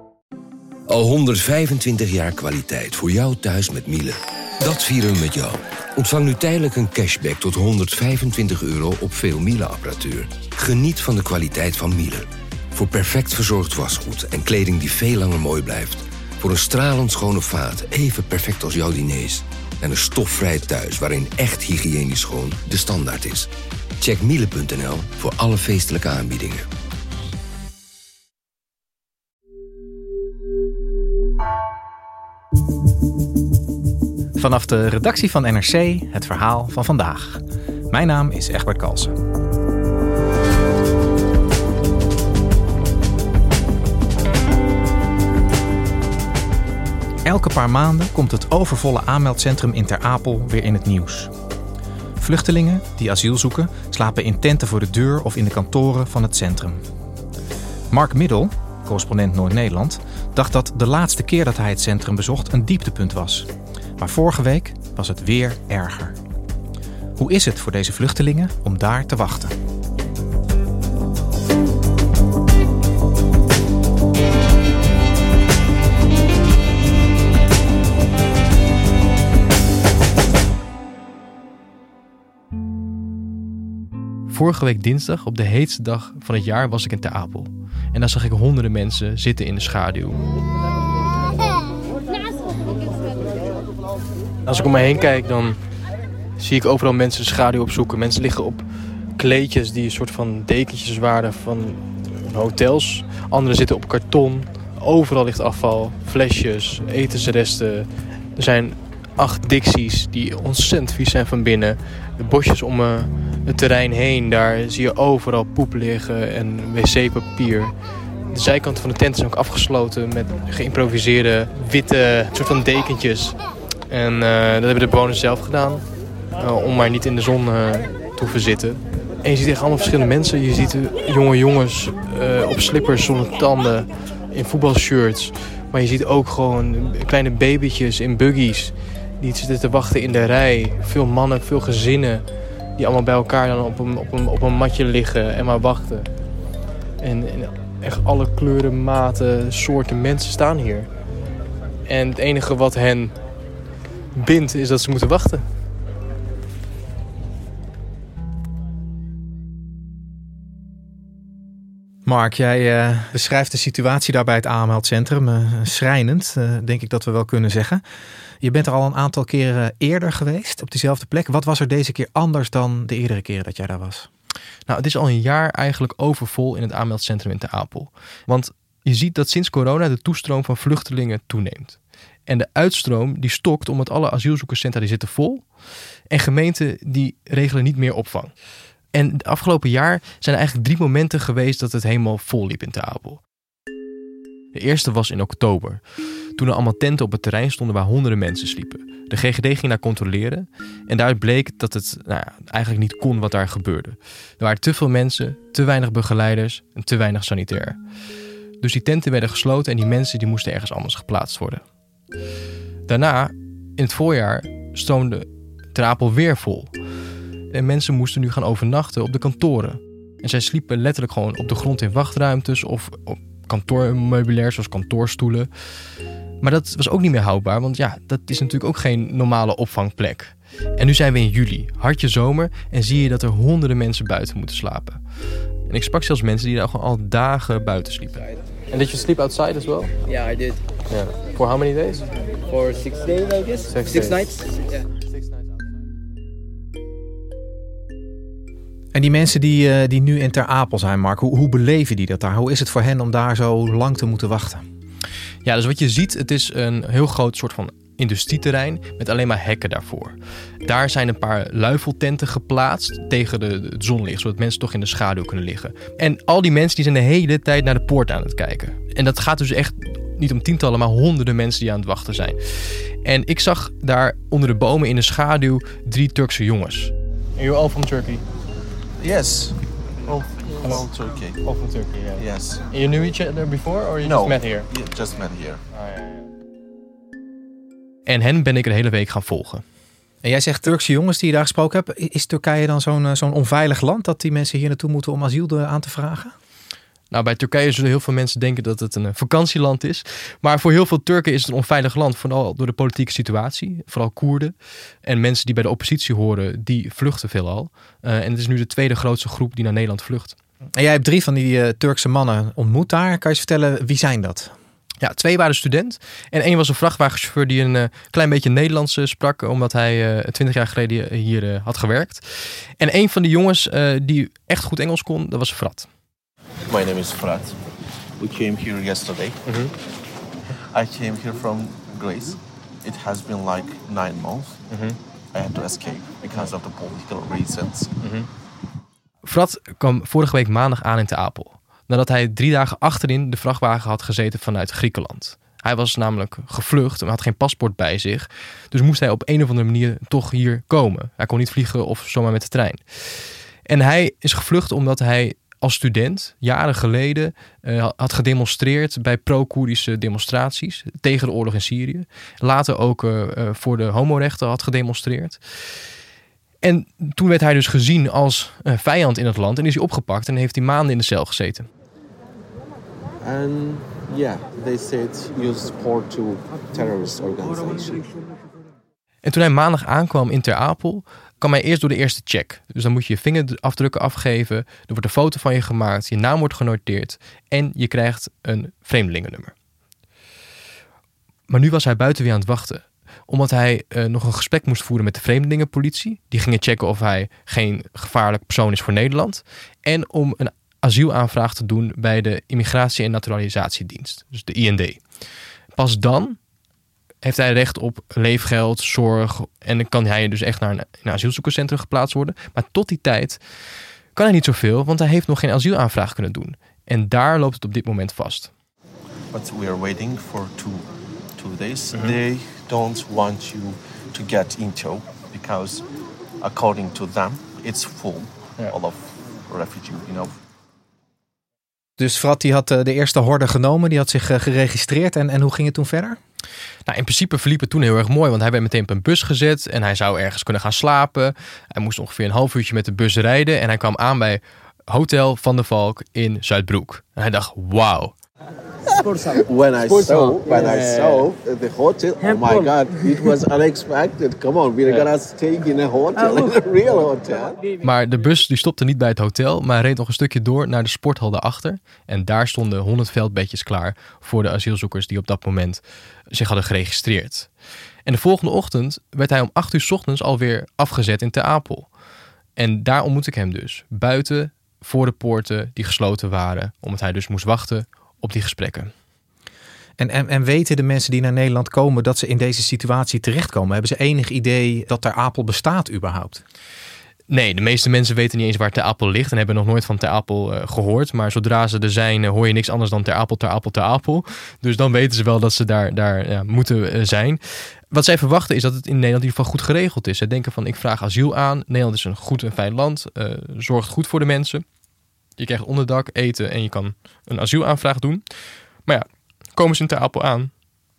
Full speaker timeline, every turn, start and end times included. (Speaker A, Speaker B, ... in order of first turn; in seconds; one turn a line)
Speaker A: 0.9-23.5
Speaker A: 24.0-26.6
Speaker B: 34.4-39.1
Speaker B: 47.2-51.3
Speaker B: 52.2-56.8
Speaker B: 57.9-66.2
Speaker B: 67.2-69.5
Speaker C: 84.3-90.2
Speaker C: 94.5-95.6
Speaker C: 96.4-98.7
Speaker C: 99.2-117.7
Speaker C: 118.3-123.4
Speaker C: 123.9-125.8
Speaker C: 126.4-142.2
Speaker C: 142.8-146.1
Speaker C: 147.0-150.9
Speaker C: 151.9-153.2
Speaker C: 154.2-155.5
Speaker B: 162.1-167.8
Speaker B: 168.4-174.1
Speaker C: 174.7-185.5
Speaker C: 186.1-188.3
Speaker C: 188.9-193.2
Speaker C: 194.5-195.8
Speaker C: 196.4-207.8
Speaker C: 208.6-211.6
Speaker C: 212.9-216.7
Speaker C: 217.5-225.5
Speaker C: 226.4-235.0
Speaker C: 235.7-239.9
Speaker D: 240.2-240.6
Speaker C: 240.9-242.1
Speaker D: 242.5-244.2
Speaker C: 243.7-244.4
Speaker B: 248.9-254.6
Speaker C: 255.4-278.2
Speaker E: 279.0-281.4
Speaker C: 281.4-284.7
Speaker E: 282.2-282.7
Speaker E: 284.0-285.6
Speaker C: 285.8-286.2
Speaker C: 288.1-289.6
Speaker B: 290.2-296.3
Speaker C: 297.1-310.4
Speaker B: 310.8-314.5
Speaker C: 315.0-325.9
Speaker E: 326.7-327.6
Speaker E: 328.2-329.4
Speaker C: 329.5-329.7
Speaker E: 330.7-334.6
Speaker C: 334.7-335.0
Speaker E: 335.3-337.9
Speaker C: 338.0-338.3
Speaker C: 339.2-365.4
Speaker C: 366.6-371.7
Speaker E: 373.2-378.0
Speaker C: 379.2-389.5
Speaker C: 391.5-405.0
Speaker C: 405.8-406.4
Speaker C: 407.2-413.4
Speaker C: 414.1-418.5
Speaker E: 419.3-425.9
Speaker E: 426.4-430.4
Speaker B: 432.0-436.2
Speaker C: 436.9-448.1
Speaker E: 449.3-457.6
Speaker D: 450.0-450.8
Speaker C: 457.8-467.5
Speaker C: 468.1-471.9
Speaker C: 472.6-478.9
Speaker B: 480.0-486.4
Speaker C: 487.3-504.6
Speaker C: 505.4-508.2
Speaker C: 508.9-510.5